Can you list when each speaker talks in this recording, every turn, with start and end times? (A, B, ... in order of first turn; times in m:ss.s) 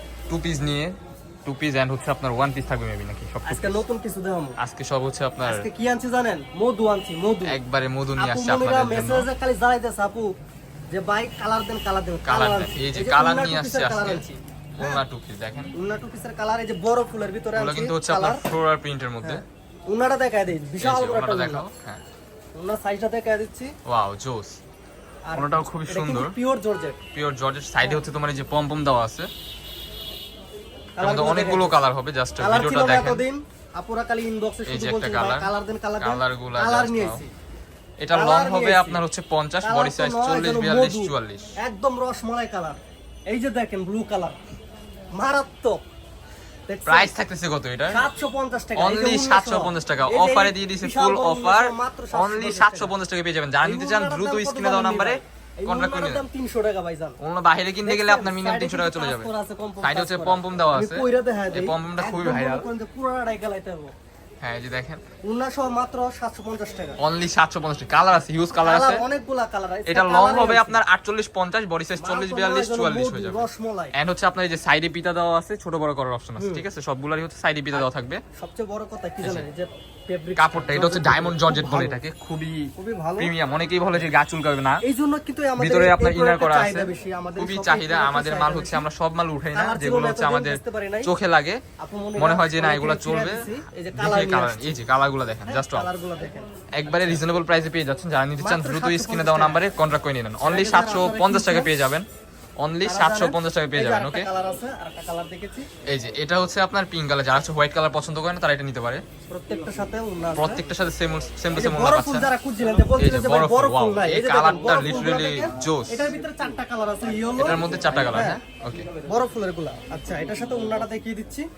0:00.3-0:00.9 A
0:01.4-0:03.8 A
0:03.4-0:04.6 B
0:04.6-0:05.7 A
0:05.4-0:07.6 B
0:07.4-0:09.3 A
0:08.2-0:10.3 B
0:10.9-0:15.0 B
0:12.2-0:15.7 A
0:15.8-0:18.4 B
0:17.6-0:19.4 A
0:19.2-0:21.7 B
0:20.8-0:22.0 A
0:22.6-0:23.7 B
0:23.9-0:24.6 A
0:25.3-0:27.0 B
0:25.3-0:26.4 A
0:27.1-0:29.3 A
0:31.0-0:31.8 B
0:31.0-0:33.2 A
0:32.4-0:37.3 B
0:34.7-0:37.2 A
0:38.0-0:41.5 A
0:38.1-0:39.0 B
0:39.6-0:44.4 B
0:45.2-0:45.8 B
0:46.7-0:47.1 B
0:46.9-0:48.1 A
0:47.9-0:53.0 B
0:48.8-0:56.3 A
0:53.6-0:57.2 B
0:57.2-0:59.3 A
0:57.8-1:03.9 B
0:59.8-1:02.7 A
1:04.4-1:05.0 A
1:05.2-1:07.0 B
1:07.0-1:09.0 A
1:08.6-1:10.8 B
1:09.9-1:18.2 A
1:12.0-1:13.9 B
1:16.4-1:16.6 B
1:18.4-1:22.0 B
1:20.4-1:24.8 A
1:22.8-1:23.3 B
1:24.8-1:28.9 B
1:25.6-1:31.6 A
1:29.5-1:31.1 B
1:31.8-1:34.8 B
1:32.2-1:35.9 A
1:35.5-1:37.2 B
1:36.8-1:42.1 A
1:38.4-1:39.6 B
1:40.4-1:41.7 B
1:42.6-1:44.3 A
1:42.8-1:45.7 B
1:45.8-1:49.0 A
1:49.3-1:50.6 B
1:50.4-1:52.3 A
1:51.5-1:58.4 B
1:53.0-1:56.1 A
1:57.4-1:58.9 A
1:59.0-2:01.5 B